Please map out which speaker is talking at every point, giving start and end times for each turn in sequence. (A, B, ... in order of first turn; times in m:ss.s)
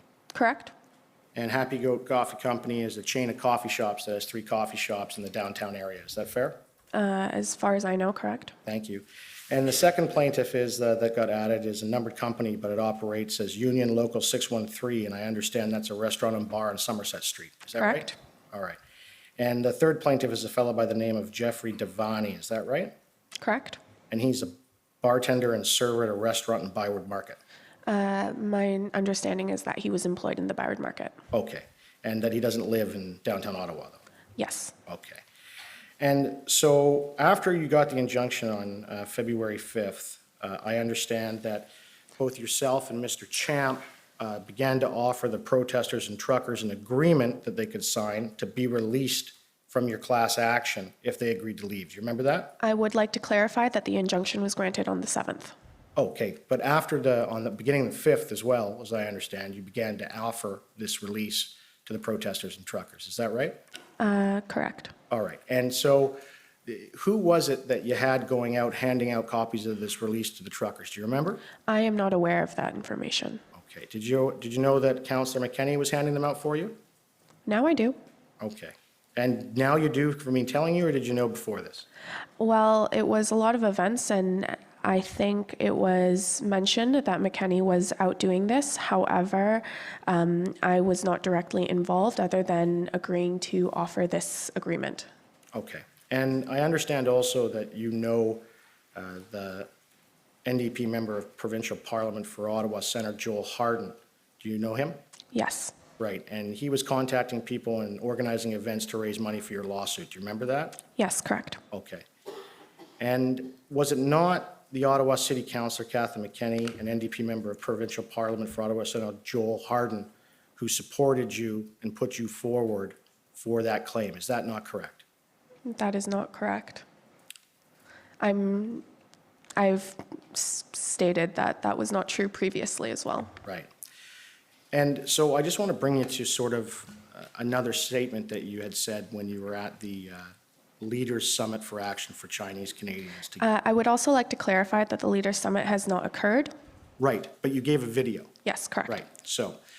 0:00.3-0:00.7 A
0:01.4-0:06.6 B
0:06.9-0:08.6 A
0:08.7-0:18.8 B
0:17.8-0:18.2 A
0:19.4-0:23.0 B
0:23.4-0:23.8 A
0:24.1-0:27.4 B
0:27.9-0:31.2 A
0:31.3-0:34.0 B
0:34.4-0:34.7 A
0:34.9-0:35.2 B
0:36.0-0:52.6 B
0:52.6-0:55.6 A
0:56.0-1:03.6 B
1:04.0-1:04.9 A
1:05.1-1:11.4 B
1:11.7-1:13.4 A
1:13.6-1:16.8 B
1:17.5-1:18.0 A
1:18.4-1:21.9 B
1:22.4-1:35.1 A
1:35.5-1:39.7 B
1:40.5-1:45.0 B
1:45.3-1:45.7 A
1:46.0-1:50.8 B
1:51.0-1:51.6 A
1:51.7-1:52.1 B
1:53.0-2:05.0 B
2:05.7-2:06.8 A
2:08.2-2:08.8 A
2:09.6-2:13.4 A
2:13.4-2:13.7 B
2:14.7-2:23.4 B
2:23.4-2:26.5 A
2:27.0-2:28.3 B
2:28.4-2:29.0 A
2:28.9-2:29.6 B